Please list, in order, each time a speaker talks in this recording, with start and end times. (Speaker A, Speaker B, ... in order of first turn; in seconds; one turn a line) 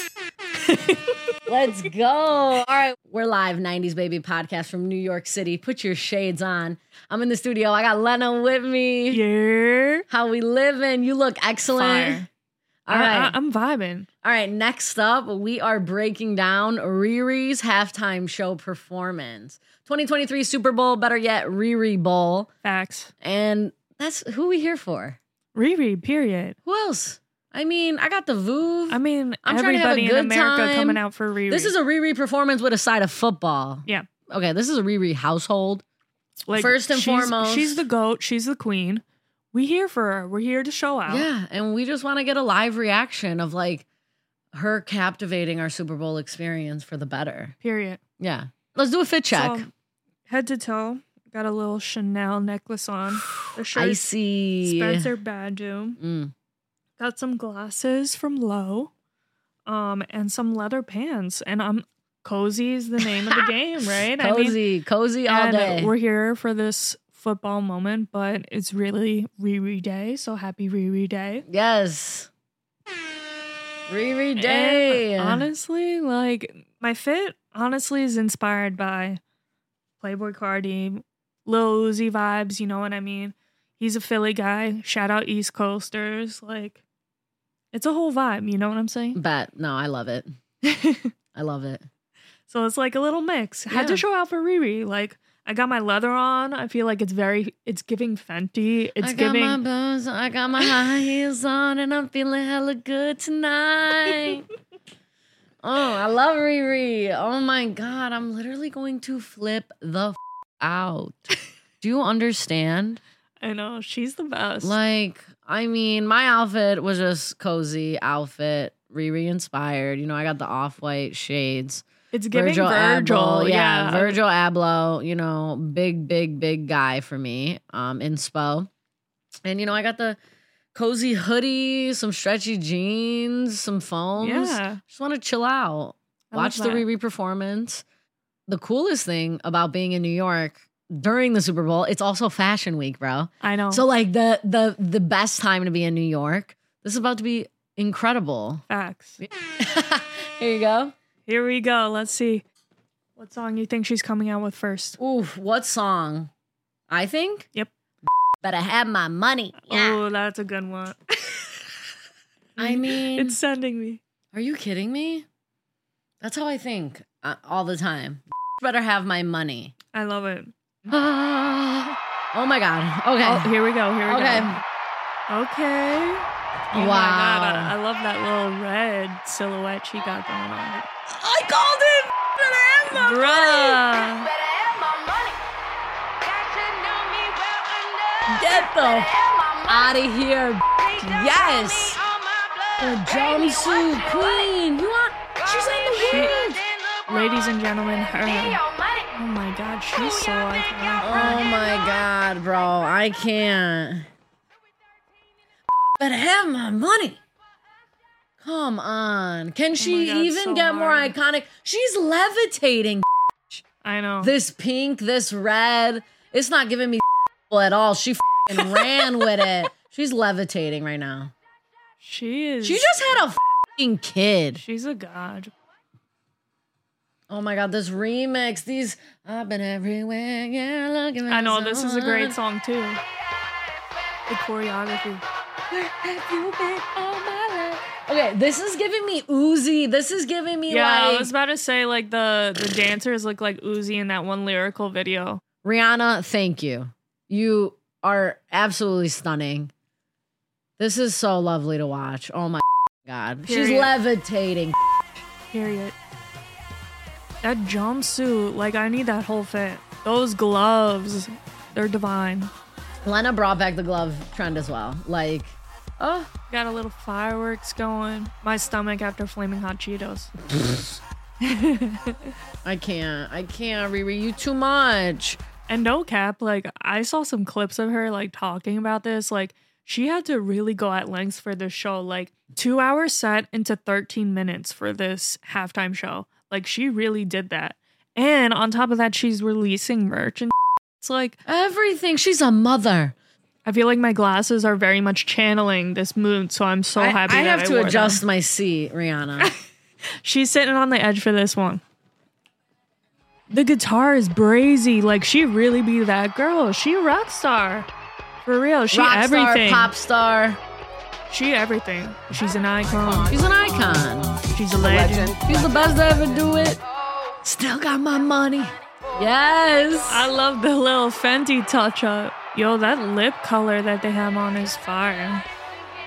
Speaker A: 0.7-1.0
Speaker B: 1.5-9.2
Speaker A: 9.1-10.1
Speaker B: 10.1-12.3
Speaker A: 11.7-12.3
Speaker B: 12.9-13.4
Speaker A: 12.9-14.1
Speaker B: 14.2-22.5
Speaker A: 22.6-23.1
Speaker B: 23.2-25.2
Speaker A: 25.5-26.6
Speaker B: 26.7-35.8
Speaker A: 28.9-31.8
Speaker A: 36.5-41.3
Speaker B: 36.5-37.8
Speaker B: 41.1-43.9
Speaker B: 44.5-47.5
Speaker A: 47.6-48.0
Speaker B: 48.2-49.7
Speaker A: 49.3-49.7
Speaker A: 50.3-56.0
Speaker B: 53.1-55.1
Speaker B: 56.0-56.3
Speaker A: 57.0-58.9
Speaker A: 59.7-64.7
Speaker B: 64.1-65.9
Speaker A: 65.3-71.5
Speaker B: 71.5-72.3
Speaker B: 73.9-75.5
Speaker A: 74.3-79.2
Speaker A: 80.0-86.8
Speaker A: 87.7-89.2
Speaker B: 89.2-90.3
Speaker A: 90.6-91.1
Speaker B: 91.3-91.8
Speaker A: 92.5-99.6
Speaker B: 93.7-94.0
Speaker B: 99.0-104.4
Speaker A: 100.6-100.9
Speaker B: 105.6-113.0
Speaker A: 113.4-114.8
Speaker B: 114.6-128.7
Speaker A: 122.1-124.2
Speaker B: 129.4-130.2
Speaker B: 130.7-137.8
Speaker A: 134.2-134.8
Speaker A: 136.3-136.9
Speaker B: 138.5-148.6
Speaker A: 143.4-143.8
Speaker A: 148.7-149.2
Speaker B: 149.2-150.9
Speaker A: 151.3-152.4
Speaker A: 153.2-155.0
Speaker B: 155.0-156.3
Speaker B: 156.9-157.5
Speaker B: 158.4-160.0
Speaker A: 159.6-161.8
Speaker A: 162.6-164.0
Speaker B: 162.6-163.4
Speaker B: 164.3-165.2
Speaker B: 166.2-169.7
Speaker A: 169.9-171.0
Speaker B: 170.9-173.5
Speaker A: 173.2-174.6
Speaker B: 174.1-174.6
Speaker A: 175.3-180.9
Speaker B: 176.7-177.8
Speaker B: 181.1-183.8
Speaker A: 182.9-184.3
Speaker B: 188.3-192.0
Speaker B: 192.8-196.6
Speaker A: 195.9-196.4
Speaker A: 197.1-201.4
Speaker B: 201.0-204.1
Speaker B: 206.0-207.2
Speaker B: 208.4-213.6
Speaker A: 209.8-211.2
Speaker A: 213.8-214.3
Speaker B: 214.2-221.3
Speaker A: 222.0-223.1
Speaker B: 222.6-224.6
Speaker A: 224.6-225.5
Speaker B: 227.3-232.4
Speaker A: 231.3-233.0
Speaker A: 234.3-235.2
Speaker B: 235.7-241.3
Speaker A: 240.7-245.4
Speaker B: 245.6-249.7
Speaker B: 250.8-254.8
Speaker A: 253.5-253.9
Speaker A: 255.5-255.9
Speaker A: 257.4-262.5
Speaker B: 263.0-266.3
Speaker A: 266.5-270.5
Speaker A: 271.4-272.3
Speaker B: 272.6-275.4
Speaker A: 275.7-291.4
Speaker B: 291.5-293.1
Speaker A: 293.6-298.2
Speaker B: 297.0-299.5
Speaker A: 300.2-301.8
Speaker A: 303.5-307.9
Speaker A: 308.4-309.9
Speaker B: 308.9-310.6
Speaker A: 311.3-313.3
Speaker B: 313.3-314.4
Speaker A: 314.4-315.4
Speaker B: 315.4-316.8
Speaker B: 317.4-320.3
Speaker A: 320.1-325.4